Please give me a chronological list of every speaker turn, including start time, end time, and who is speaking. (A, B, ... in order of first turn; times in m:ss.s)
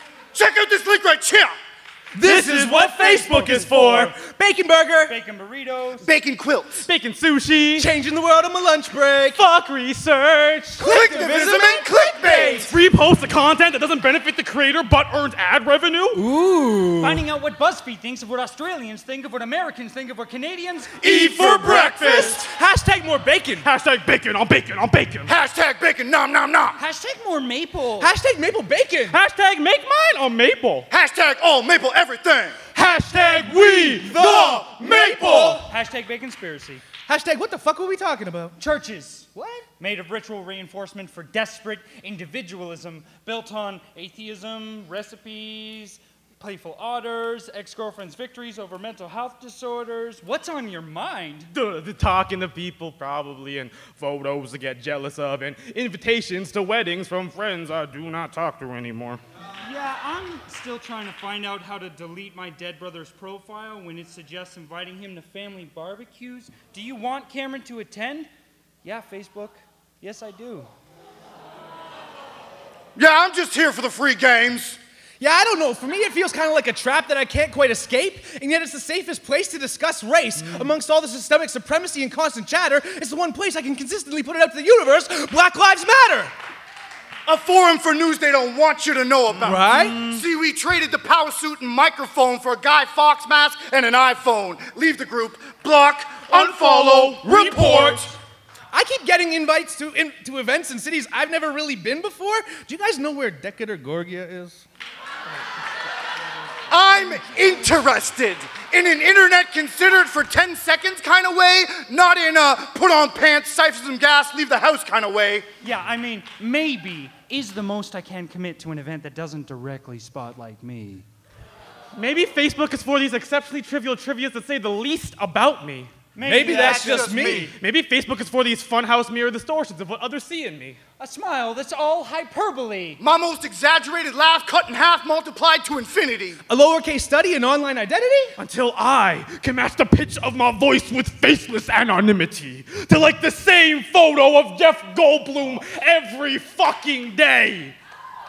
0:00.3-0:01.5 A
0:02.1-0:05.1 B
0:02.2-0:04.1 C
0:03.2-0:04.1 D
0:05.0-0:06.1 D
0:06.0-0:06.9 A
0:06.8-0:07.9 C
0:07.8-0:09.4 B
0:09.3-0:11.0 C
0:10.8-0:12.7 B
0:10.8-0:12.7 A
0:12.5-0:16.2 C
0:16.2-0:17.2 B
0:17.0-0:21.0 D
0:21.0-0:21.8 A
0:21.0-0:22.5 C
0:21.0-0:23.7 B
0:23.6-0:25.3 C
0:25.3-0:26.8 A
0:26.8-0:28.1 D
0:28.0-0:29.2 B
0:29.1-0:30.9 C
0:30.9-0:32.6 A
0:32.7-0:35.6 C
0:33.9-0:35.6 B
0:35.6-0:36.8 D
0:37.1-0:38.6 B
0:38.6-0:51.5 D
0:39.4-0:39.6 B
0:51.5-0:59.2 C
0:59.5-1:08.3 D
1:08.8-1:10.7 D
1:13.0-1:14.8 A
1:15.2-1:26.3 B
1:27.3-1:38.1 A
1:29.4-1:30.0 B
1:29.7-1:30.2 C
1:36.3-1:38.1 C
1:38.7-1:44.6 B
1:46.7-1:55.5 A
1:55.6-2:01.1 D
2:02.0-2:05.9 C
2:06.2-2:07.2 D
2:06.2-2:07.5 B
2:06.4-2:07.5 A
2:07.2-2:10.8 C
2:11.0-2:13.0 D
2:13.0-2:16.4 A
2:16.5-2:18.4 B
2:18.4-2:27.8 C